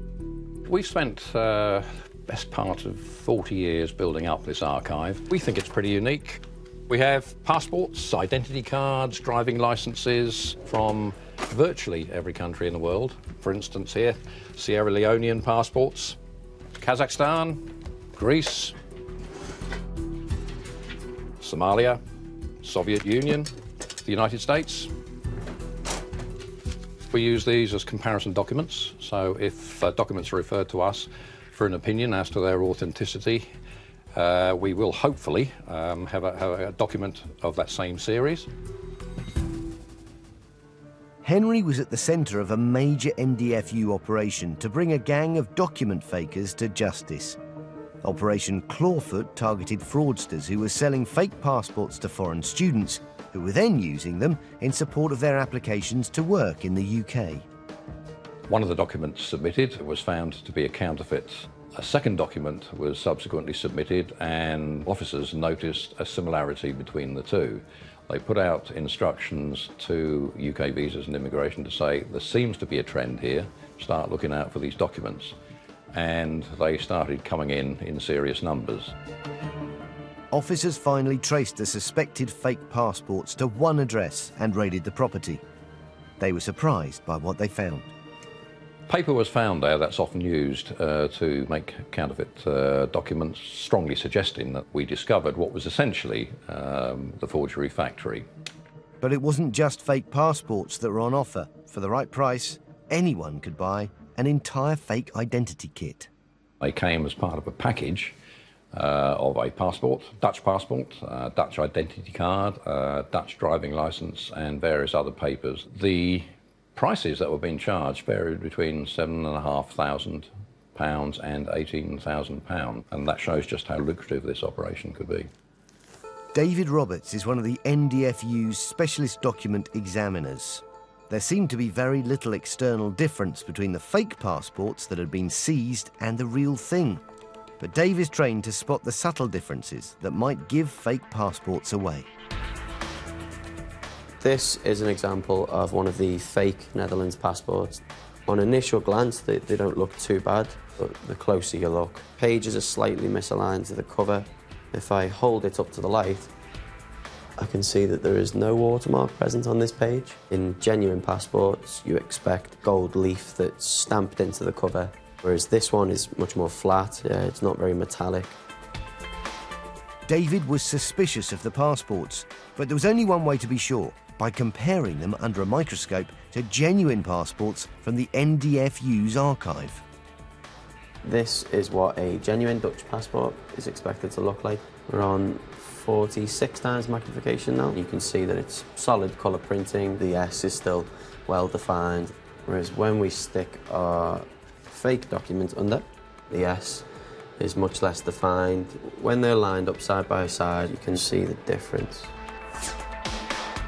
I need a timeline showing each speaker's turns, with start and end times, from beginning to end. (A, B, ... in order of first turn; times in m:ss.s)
0:00.7-0:16.2 A
0:16.8-0:17.6 A
0:18.2-0:18.7 A
0:21.4-0:22.0 A
0:22.6-0:23.5 A
0:24.0-0:24.9 A
0:27.1-0:33.5 A
0:34.2-0:38.5 A
0:41.2-0:47.4 B
0:48.0-0:57.5 B
0:58.5-1:15.4 A
1:15.9-1:18.9 A
1:20.3-1:25.4 B
1:26.2-1:27.9 B
1:28.9-1:38.3 A
1:39.0-1:46.1 B
1:46.6-1:48.2 A
1:48.7-2:05.3 A
2:06.3-2:17.0 B
2:17.6-2:22.1 B
2:24.2-2:36.3 C
2:37.4-2:48.4 C
2:50.1-2:59.8 B
3:01.0-3:16.9 C
3:17.4-3:22.1 C